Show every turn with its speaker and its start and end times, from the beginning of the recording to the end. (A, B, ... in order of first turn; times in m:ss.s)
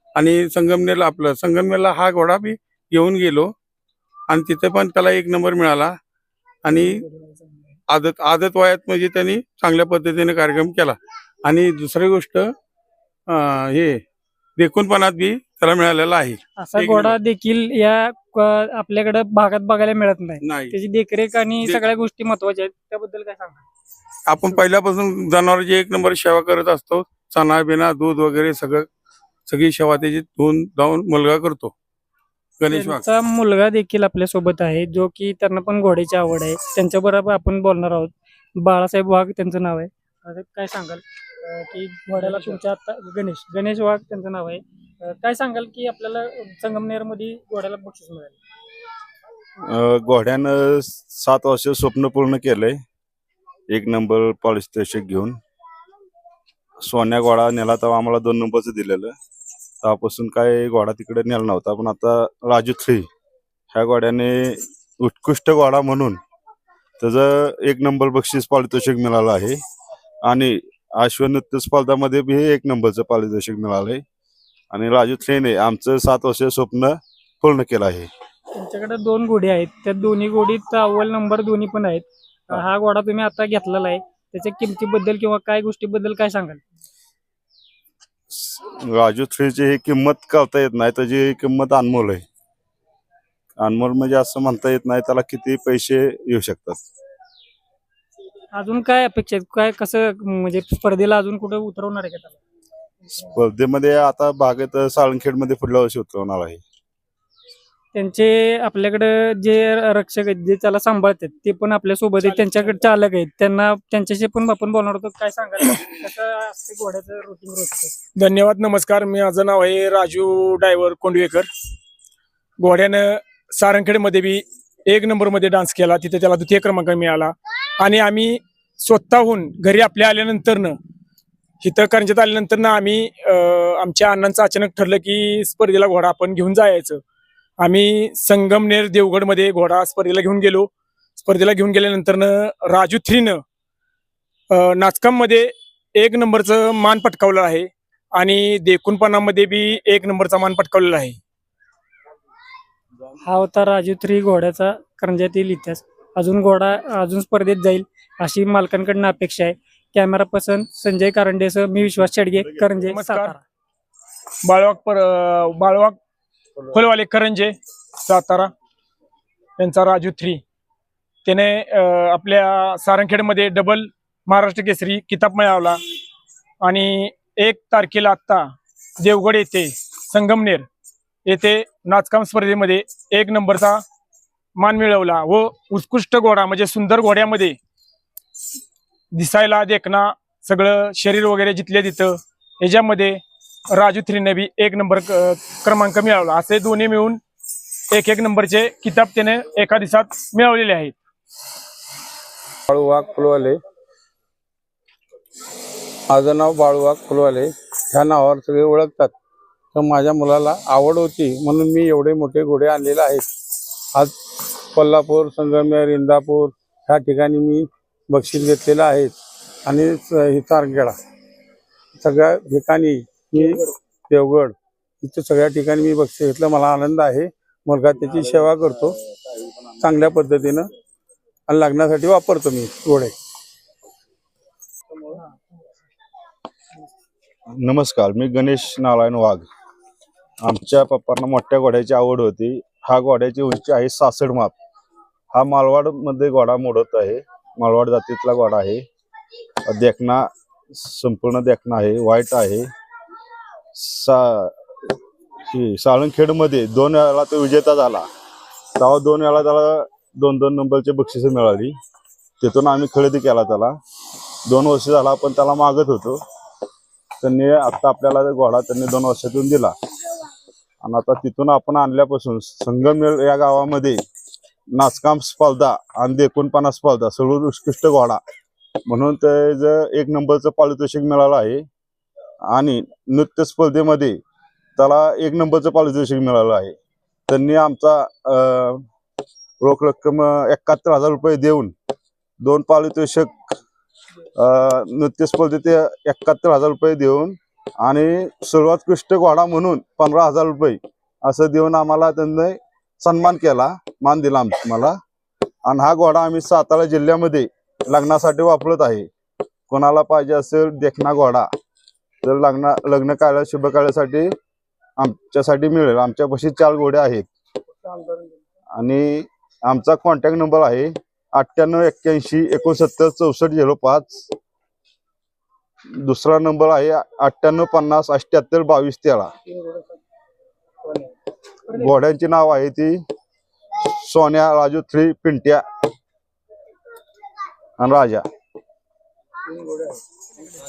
0:00.2-0:03.5 A
0:04.3-0:05.9 A
0:06.6-0:07.0 A
0:06.8-0:07.6 B
0:07.9-0:12.5 A
0:13.3-0:14.0 A
0:14.6-0:17.2 A
0:16.6-0:23.6 C
0:20.4-0:20.7 A
0:24.3-0:28.9 A
0:29.5-0:31.7 A
0:32.6-0:33.0 A
0:32.7-0:48.4 C
0:42.2-0:42.6 B
0:49.6-0:52.8 D
0:53.7-0:55.3 D
0:56.8-0:59.1 D
0:59.8-1:03.1 D
1:03.7-1:06.2 D
1:07.0-1:09.6 D
1:10.3-1:14.0 D
1:14.7-1:18.1 D
1:18.5-1:26.6 C
1:28.3-1:32.2 D
1:33.6-1:36.8 D
1:38.5-1:42.4 C
1:43.2-1:46.6 D
1:47.9-1:57.9 C
1:52.2-1:52.9 B
1:58.2-2:01.5 B
2:02.6-2:10.8 B
2:11.6-2:17.0 B
2:17.6-2:20.7 B
2:21.2-2:23.4 B
2:24.5-2:31.2 B
2:33.2-2:43.4 C
2:42.4-2:42.8 D
2:42.9-2:43.3 B
2:44.4-2:46.0 B
2:46.7-2:48.5 B
2:49.6-2:50.4 B
2:51.2-2:55.8 B
2:56.6-3:00.7 B
3:01.2-3:03.8 B
3:04.6-3:07.6 B
3:09.1-3:13.2 B
3:13.7-3:17.2 B
3:17.9-3:20.9 B
3:22.7-3:23.6 A
3:26.1-3:29.1 A
3:29.7-3:33.3 A
3:33.9-3:41.0 A
3:42.0-3:50.7 A
3:51.5-3:53.1 A
3:57.5-3:59.5 D
4:00.4-4:04.5 D
4:05.3-4:08.8 D
4:09.7-4:12.7 D
4:13.7-4:14.5 D
4:15.5-4:18.0 D
4:18.8-4:21.7 D
4:22.4-4:23.7 D
4:24.5-4:26.2 D
4:27.2-4:29.7 D
4:30.8-4:34.0 D
4:34.7-4:38.2 D
4:38.9-4:41.6 D
4:42.5-4:44.2 D
4:44.8-4:46.7 D
4:47.3-4:48.8 D
4:49.6-4:51.7 D
4:52.4-4:53.4 D
4:54.4-5:05.0 D
5:05.6-5:09.1 D
5:09.7-5:11.5 D
5:12.2-5:14.3 D
5:15.0-5:17.2 D
5:17.8-5:18.3 B
5:18.7-5:24.3 D
5:26.0-5:29.3 D
5:29.5-5:29.8 B
5:31.7-5:33.0 D
5:33.8-5:35.6 D
5:37.8-5:38.2 D
5:39.5-5:39.9 B